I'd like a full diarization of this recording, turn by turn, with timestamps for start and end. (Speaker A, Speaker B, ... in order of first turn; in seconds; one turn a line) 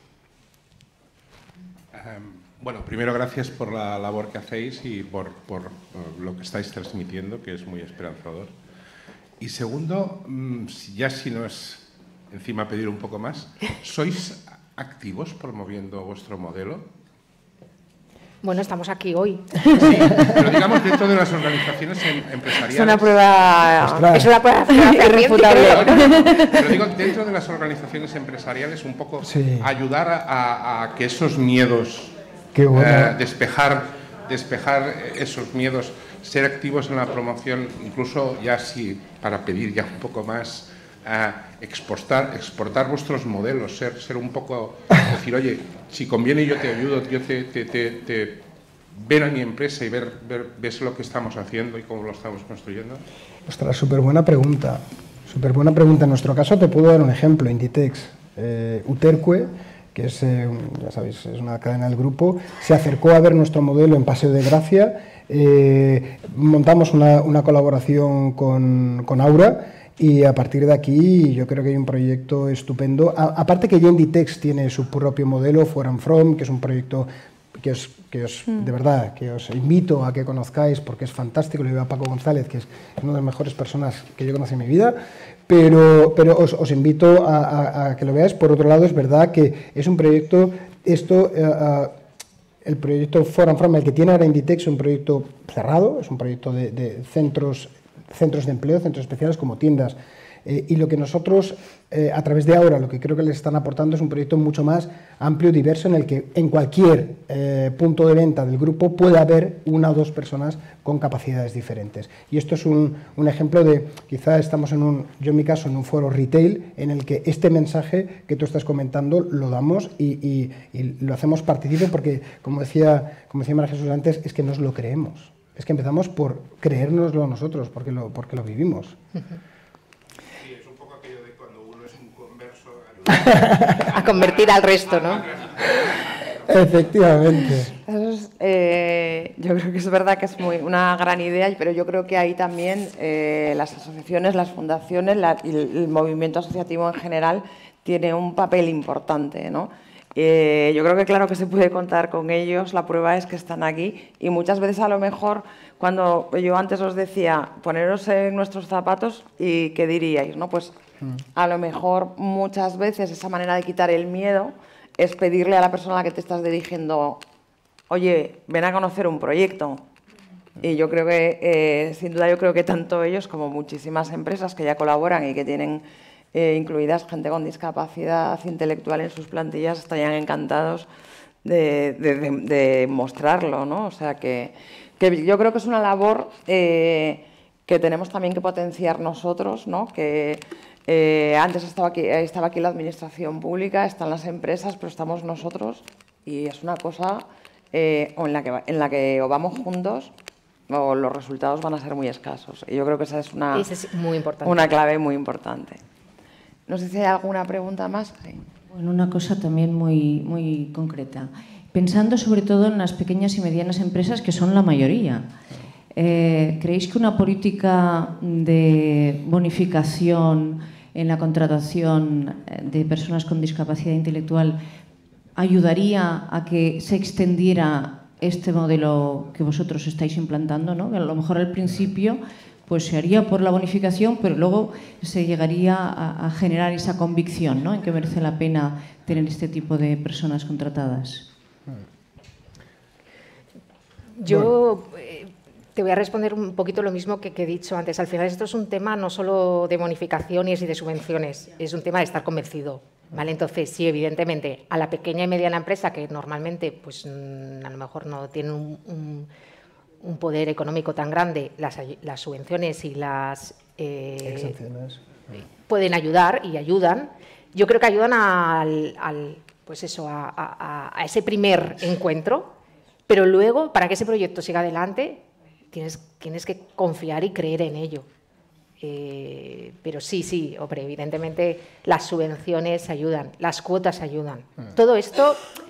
Speaker A: 1.9-8.5
Speaker A: 9.4-16.9
Speaker B: 18.4-19.9
Speaker A: 19.7-23.1
Speaker C: 22.7-26.8
Speaker D: 23.8-24.3
Speaker B: 24.1-26.2
Speaker A: 25.5-32.1
Speaker D: 29.2-29.7
Speaker D: 32.5-33.2
Speaker A: 32.7-48.4
Speaker A: 49.0-53.0
Speaker D: 53.5-92.0
Speaker D: 92.6-129.0
Speaker A: 130.6-133.2
Speaker D: 133.1-133.9
Speaker B: 133.9-135.3
Speaker D: 136.4-137.7
Speaker C: 137.8-160.8
Speaker C: 161.3-167.2
Speaker C: 167.9-169.8
Speaker C: 170.6-180.9
Speaker C: 181.4-200.1
Speaker C: 200.7-203.7
Speaker B: 203.5-204.7
Speaker C: 204.4-205.8
Speaker C: 206.7-208.5
Speaker E: 208.7-215.3
Speaker E: 215.9-224.6
Speaker E: 225.4-241.3
Speaker B: 244.2-259.3
Speaker D: 244.3-244.5
Speaker B: 260.0-264.6
Speaker D: 264.2-265.3
Speaker B: 265.7-272.6
Speaker B: 273.1-278.1
Speaker B: 278.8-285.4